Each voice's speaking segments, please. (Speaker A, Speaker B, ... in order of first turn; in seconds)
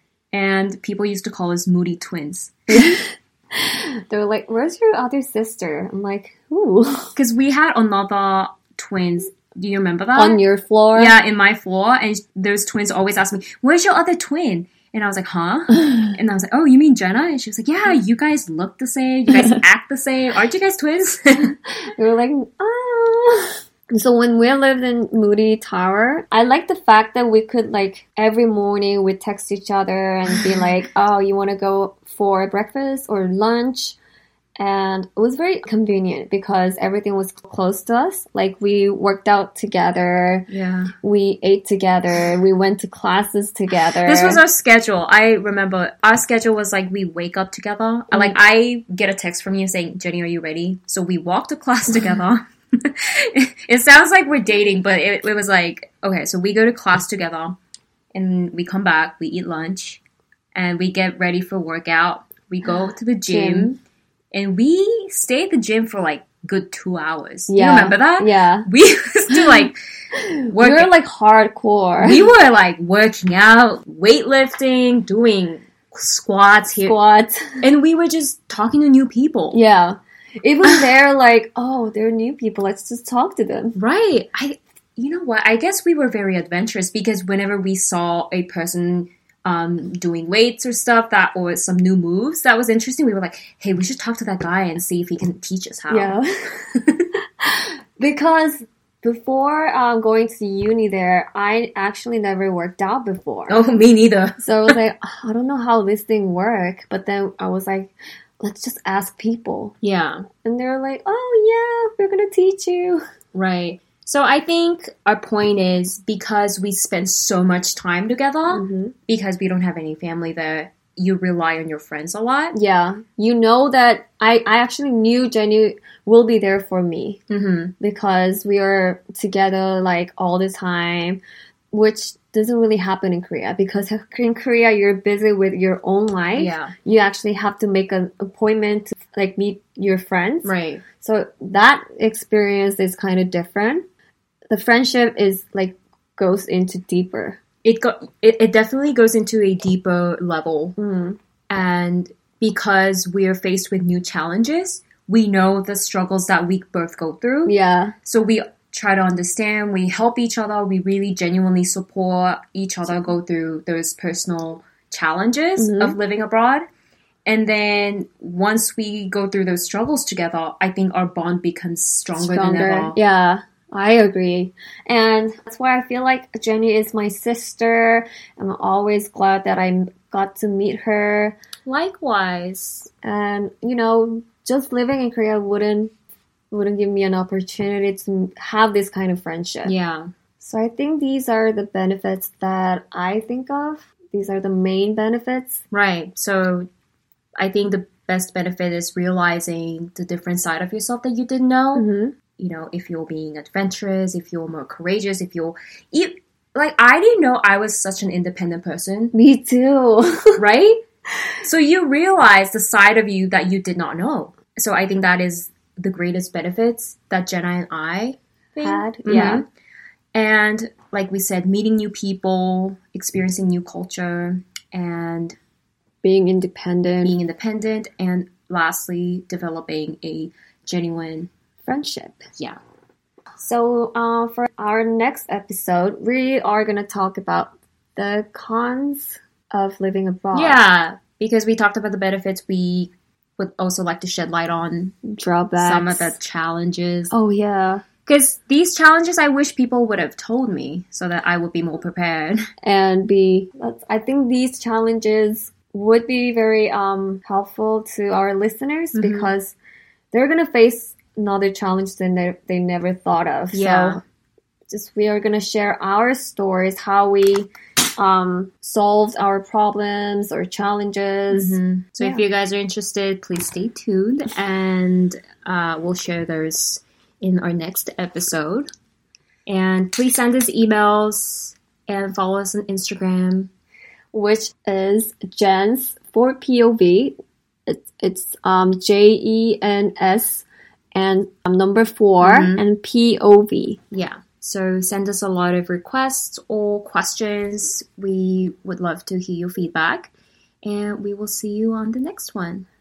Speaker A: 0.3-3.0, 7.2-10.4, 10.9-21.6, 40.5-40.9, 44.0-57.6, 58.1-60.0, 60.5-63.7, 64.3-69.8, 70.5-70.9, 72.0-77.0, 77.6-79.6, 83.8-96.2, 96.7-97.1, 103.5-104.8, 109.8-110.3, 113.3-122.5, 127.3-127.7, 136.3-136.7, 140.4-140.8, 147.6-150.8, 151.5-157.5, 158.1-166.7, 167.3-173.0, 181.7-182.9, 189.7-190.1, 195.7-196.7, 197.4-201.9, 202.4-209.1, 210.4-210.8, 211.4-219.5, 220.1-225.4, 227.0-231.3, 240.3-245.0, 245.6-247.1, 248.1-252.4, 258.9-259.3, 263.5-264.0, 271.3-278.7, 279.5-283.5, 292.2-292.6, 293.9-300.1, 300.6-302.7
Speaker B: 2.7-7.2, 10.2-11.2, 22.0-34.0, 34.6-40.5, 41.0-44.4, 63.3-63.8, 67.5-68.7, 69.3-72.3, 76.8-77.6, 79.5-83.8, 95.9-96.5, 97.4-103.6, 104.4-109.8, 110.4-113.0, 118.5-119.0, 122.5-127.2, 127.8-131.2, 131.7-143.8, 144.5-147.4, 150.8-151.2, 157.5-157.9, 165.6-166.0, 172.2-181.3, 183.0-185.9, 186.5-189.7, 190.4-195.6, 201.8-202.1, 209.1-210.4, 218.6-219.4, 226.0-227.2, 231.7-232.3, 233.4-240.6, 245.1-246.2, 247.1-247.8, 252.6-259.6, 260.1-264.0, 264.7-272.2, 284.1-293.8